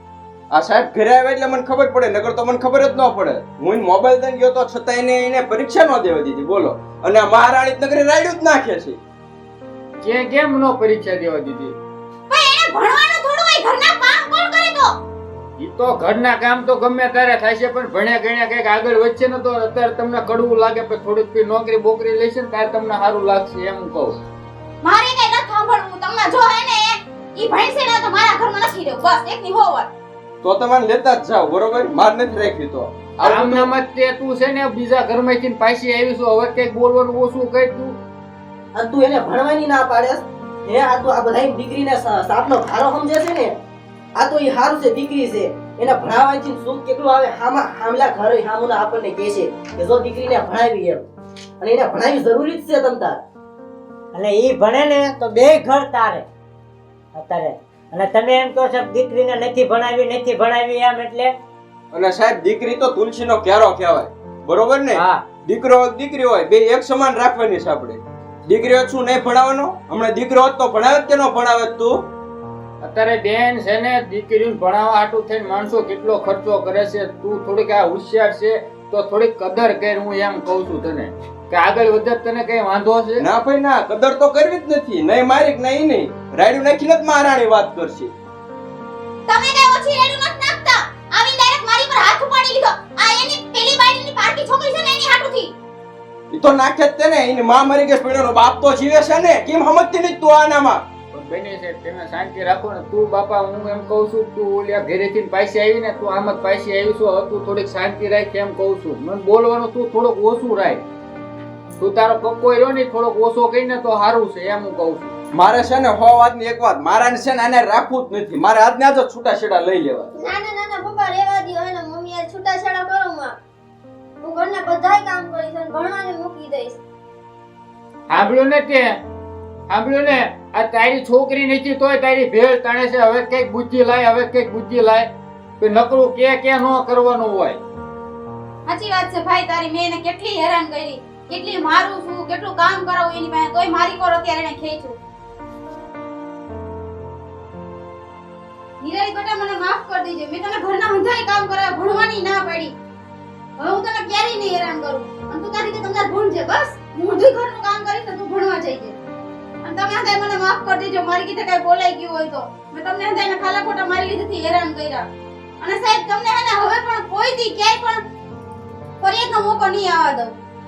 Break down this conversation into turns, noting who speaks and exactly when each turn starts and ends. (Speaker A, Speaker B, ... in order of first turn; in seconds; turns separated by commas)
Speaker A: 0.5-9.0, Speaker B: 10.0-11.7, Speaker C: 12.3-14.9, Speaker B: 15.6-24.1, Speaker C: 24.8-29.9, Speaker A: 30.4-33.7, Speaker B: 33.2-38.0, Speaker D: 38.7-43.5, Speaker D: 44.2-51.0, Speaker D: 51.6-53.2, Speaker E: 54.1-56.2, Speaker E: 57.1-61.3, Speaker A: 61.9-72.0, Speaker E: 64.9-65.2, Speaker B: 72.8-83.2, Speaker A: 83.2-88.1, Speaker C: 89.3-95.5, Speaker A: 96.3-100.8, Speaker B: 101.1-110.8, Speaker B: 111.8-115.1, Speaker A: 115.3-120.1, Speaker F: 120.1-123.3, Speaker F: 124.2-126.8, Speaker B: 128.1-129.0, Speaker B: 129.7-137.6, Speaker C: 138.7-145.0, Speaker C: 148.8-152.7, Speaker C: 153.6-159.0, Speaker C: 159.6-165.1, Speaker C: 165.6-168.0, Speaker C: 169.0-170.3